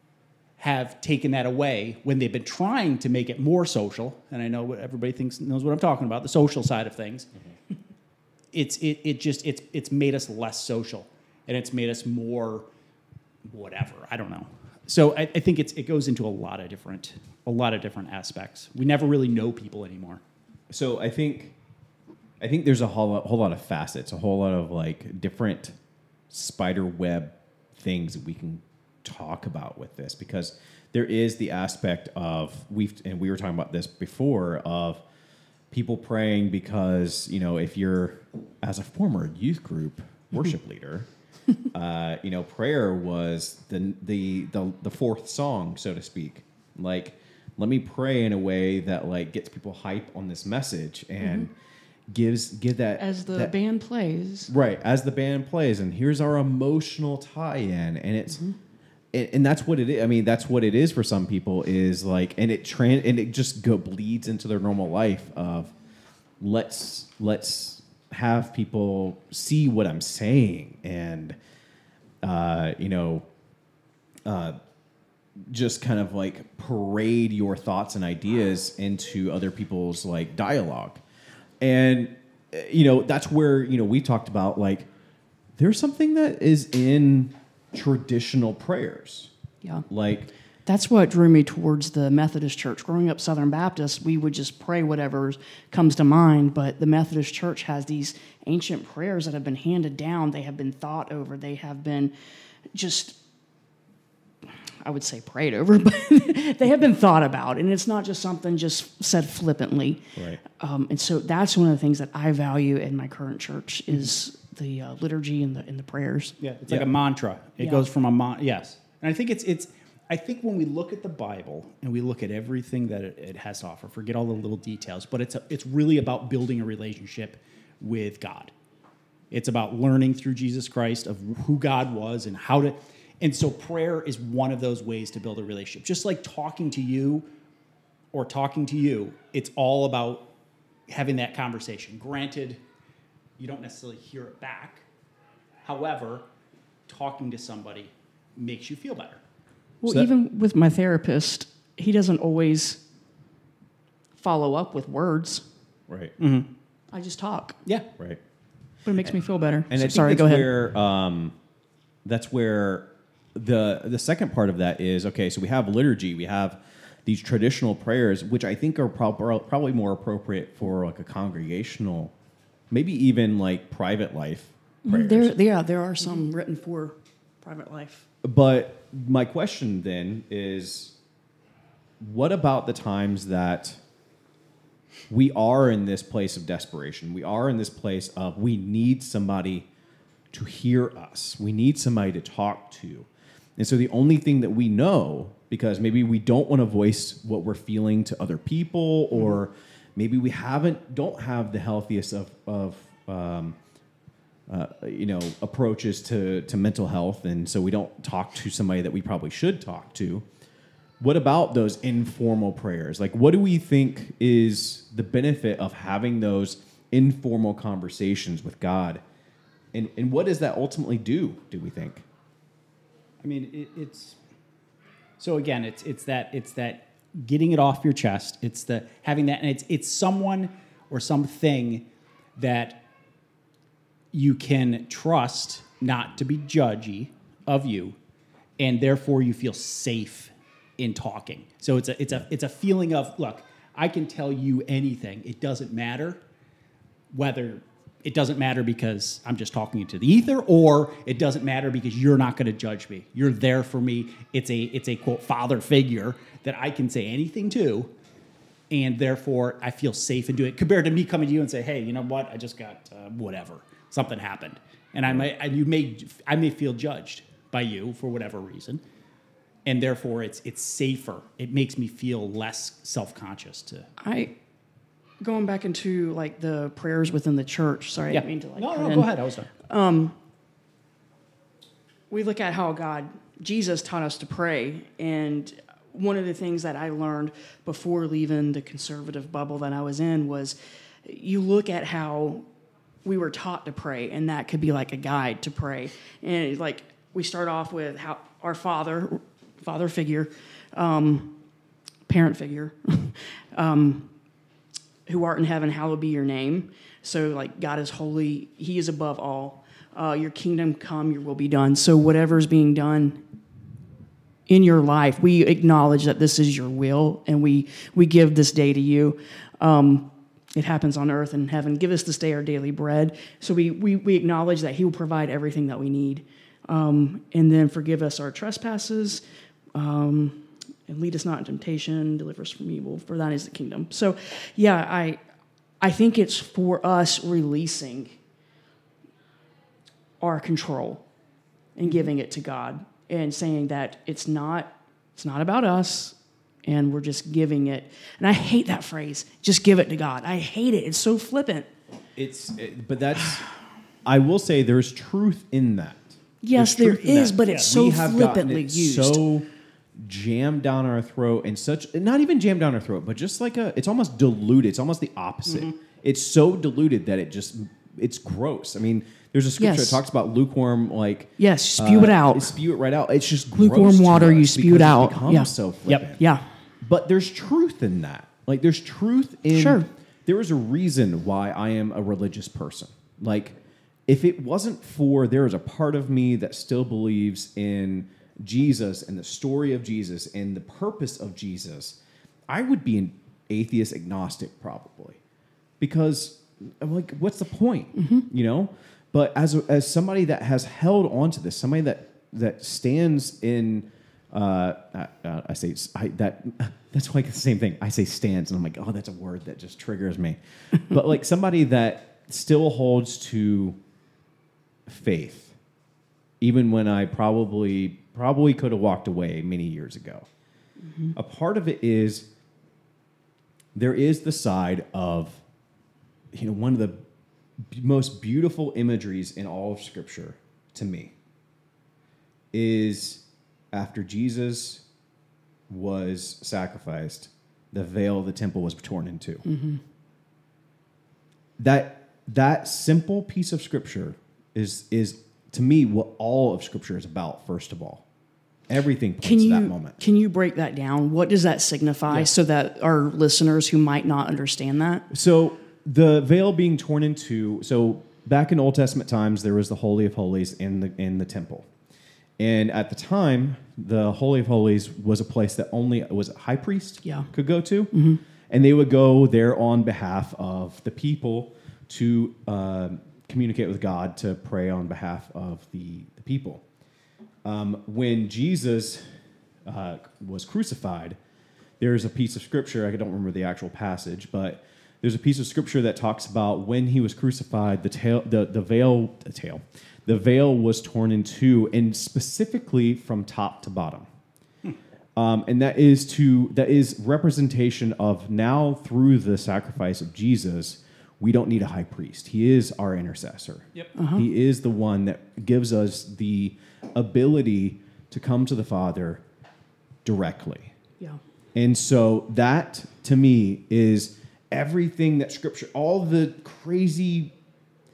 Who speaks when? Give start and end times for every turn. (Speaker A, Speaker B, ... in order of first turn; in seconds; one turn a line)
Speaker A: 0.6-7.3
Speaker A: 8.5-12.7
Speaker A: 13.4-20.2
Speaker B: 20.7-21.5
Speaker B: 22.4-25.7
Speaker B: 26.3-35.0
Speaker B: 35.7-41.1
Speaker B: 41.7-51.5
Speaker C: 51.2-51.5
Speaker B: 52.1-53.5
Speaker C: 53.0-54.5
Speaker B: 54.5-58.4
Speaker B: 59.1-65.7
Speaker B: 66.4-71.3
Speaker B: 72.2-73.2
Speaker B: 74.2-74.6
Speaker B: 75.4-81.0
Speaker B: 81.6-84.9
Speaker B: 85.6-89.3
Speaker B: 89.9-90.3
Speaker C: 90.7-102.1
Speaker C: 102.7-103.2
Speaker C: 104.8-116.4
Speaker A: 116.4-128.5
Speaker C: 117.6-117.9
Speaker A: 129.3-137.3
Speaker A: 138.1-140.3
Speaker A: 140.9-142.6
Speaker A: 143.4-144.9
Speaker A: 145.6-146.3
Speaker A: 146.9-149.2
Speaker C: 149.8-152.8
Speaker C: 154.2-155.4
Speaker B: 155.9-156.1
Speaker A: 156.2-156.5
Speaker C: 156.9-157.6
Speaker C: 158.8-160.5
Speaker B: 159.7-161.3
Speaker B: 162.0-172.1
Speaker B: 172.7-175.3
Speaker C: 174.9-178.1
Speaker B: 178.2-180.9
Speaker B: 182.0-183.8
Speaker B: 185.1-189.7
Speaker B: 190.3-203.6
Speaker B: 204.5-210.2
Speaker B: 211.0-219.0
Speaker B: 219.7-222.0
Speaker A: 223.2-224.2
Speaker A: 225.2-231.8
Speaker A: 232.3-232.8
Speaker A: 234.1-238.0
Speaker A: 238.6-246.2
Speaker A: 247.1-257.9
Speaker A: 258.7-268.8
Speaker A: 269.6-273.9
Speaker C: 274.0-274.3
Speaker C: 275.2-279.1
Speaker A: 278.1-279.5
Speaker C: 279.6-280.1
Speaker C: 282.1-292.4
Speaker C: 293.0-301.4
Speaker C: 302.1-304.1
Speaker C: 305.1-313.2
Speaker C: 314.5-329.2
Speaker C: 329.7-335.2
Speaker C: 335.8-338.2
Speaker C: 340.2-341.0
Speaker C: 341.8-351.7
Speaker B: 352.1-353.4
Speaker B: 354.0-359.4
Speaker C: 356.4-359.2
Speaker B: 360.0-376.2
Speaker A: 365.4-365.7
Speaker C: 369.6-370.0
Speaker C: 371.4-372.6
Speaker C: 373.5-375.5
Speaker C: 376.2-376.4
Speaker B: 376.8-383.5
Speaker C: 379.5-379.9
Speaker B: 384.1-392.0
Speaker B: 392.5-395.2
Speaker B: 395.8-413.8
Speaker C: 398.0-398.2
Speaker B: 414.9-415.6
Speaker B: 416.4-420.3
Speaker B: 421.1-422.3
Speaker B: 423.7-425.4
Speaker B: 426.3-427.0
Speaker B: 427.7-431.1
Speaker B: 432.5-434.8
Speaker B: 435.7-439.4
Speaker C: 439.4-439.8
Speaker B: 441.6-448.0
Speaker B: 448.7-450.0
Speaker C: 449.2-455.1
Speaker B: 455.1-461.7
Speaker B: 462.4-467.9
Speaker C: 467.0-467.3
Speaker C: 467.9-468.2
Speaker B: 468.5-476.6
Speaker B: 477.4-479.1
Speaker B: 479.6-481.2
Speaker B: 481.8-494.1
Speaker B: 495.2-509.2
Speaker C: 504.0-504.2
Speaker B: 510.0-510.7
Speaker B: 511.5-517.3